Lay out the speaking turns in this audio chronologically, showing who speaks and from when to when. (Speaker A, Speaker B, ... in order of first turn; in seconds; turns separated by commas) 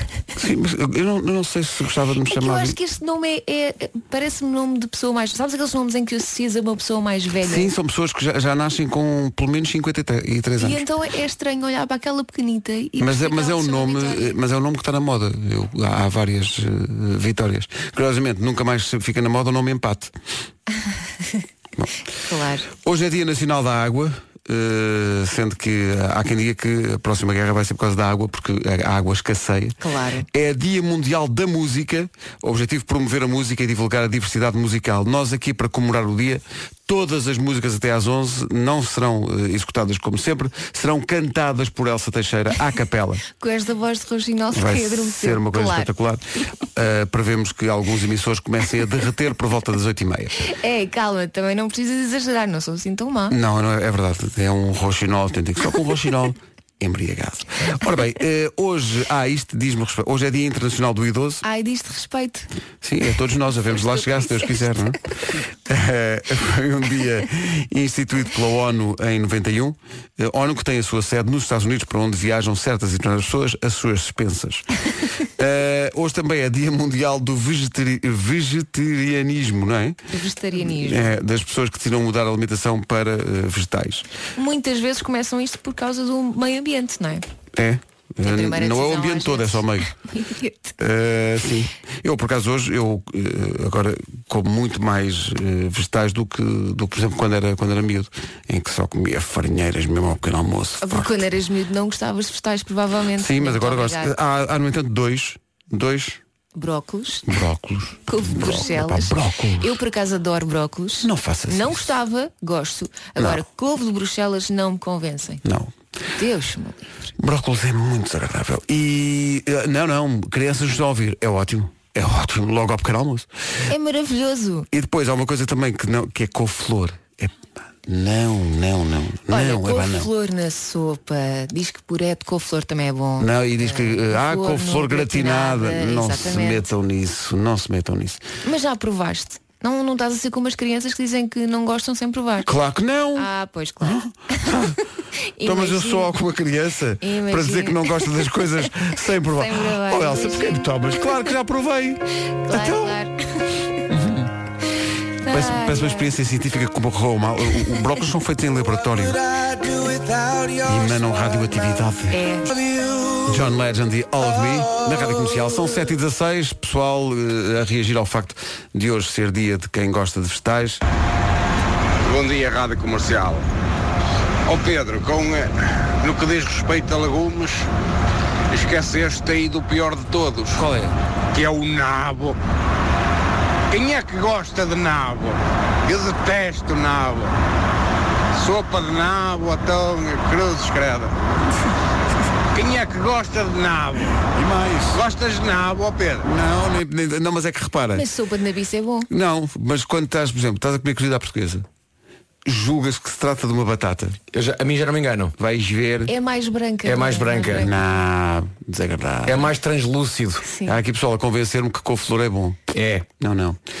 Speaker A: 0.3-2.8, Speaker B: 2.3-7.7, Speaker A: 7.4-10.8, Speaker B: 10.6-14.3, Speaker A: 13.0-20.1, Speaker B: 22.2-22.7, Speaker A: 22.7-29.8, Speaker B: 29.8-30.3, Speaker A: 30.3-43.2, Speaker B: 43.4-45.9, Speaker A: 44.5-46.2, Speaker A: 46.7-50.4, Speaker B: 50.5-53.4, Speaker A: 53.3-61.4, Speaker B: 61.4-62.5, Speaker A: 62.8-65.0, Speaker B: 63.7-64.7, Speaker A: 65.7-74.6, Speaker A: 75.4-80.0, Speaker B: 80.1-81.1, Speaker A: 80.5-84.1, Speaker B: 84.4-87.2, Speaker A: 87.5-89.9, Speaker B: 88.2-90.7, Speaker A: 90.8-101.1, Speaker B: 100.8-104.1, Speaker A: 103.2-106.2, Speaker B: 106.5-107.3, Speaker A: 107.2-109.8, Speaker B: 108.1-115.4, Speaker A: 111.0-111.9, Speaker A: 113.2-113.4, Speaker A: 115.4-115.7, Speaker B: 116.2-117.1, Speaker A: 117.2-123.3, Speaker B: 123.7-124.7, Speaker A: 124.7-130.1, Speaker B: 129.3-136.6, Speaker A: 133.2-138.2, Speaker B: 138.4-142.5, Speaker A: 142.4-143.3, Speaker B: 143.2-144.0, Speaker A: 143.8-144.8, Speaker B: 145.4-146.1, Speaker A: 145.4-152.9, Speaker B: 147.0-148.1, Speaker B: 149.2-150.7, Speaker B: 152.5-153.2, Speaker A: 153.9-154.3, Speaker B: 155.2-156.1, Speaker A: 155.3-159.2, Speaker A: 160.6-162.2, Speaker B: 162.1-162.5, Speaker A: 163.2-170.8, Speaker C: 172.0-173.4, Speaker C: 174.5-175.5, Speaker C: 176.0-177.7, Speaker C: 178.5-180.6, Speaker A: 180.6-180.9, Speaker C: 181.3-182.4, Speaker C: 183.7-187.3, Speaker C: 188.3-191.1, Speaker C: 192.5-194.2, Speaker A: 194.3-195.0, Speaker C: 194.9-196.2, Speaker A: 196.2-198.1, Speaker B: 197.9-199.1, Speaker A: 199.1-201.7, Speaker A: 202.4-204.2, Speaker D: 204.3-205.3, Speaker A: 205.4-206.1, Speaker B: 206.1-207.7, Speaker D: 206.8-207.7, Speaker A: 207.5-209.5, Speaker D: 209.2-210.5, Speaker B: 210.4-210.8, Speaker A: 210.6-212.6, Speaker D: 212.7-213.1, Speaker A: 213.2-213.6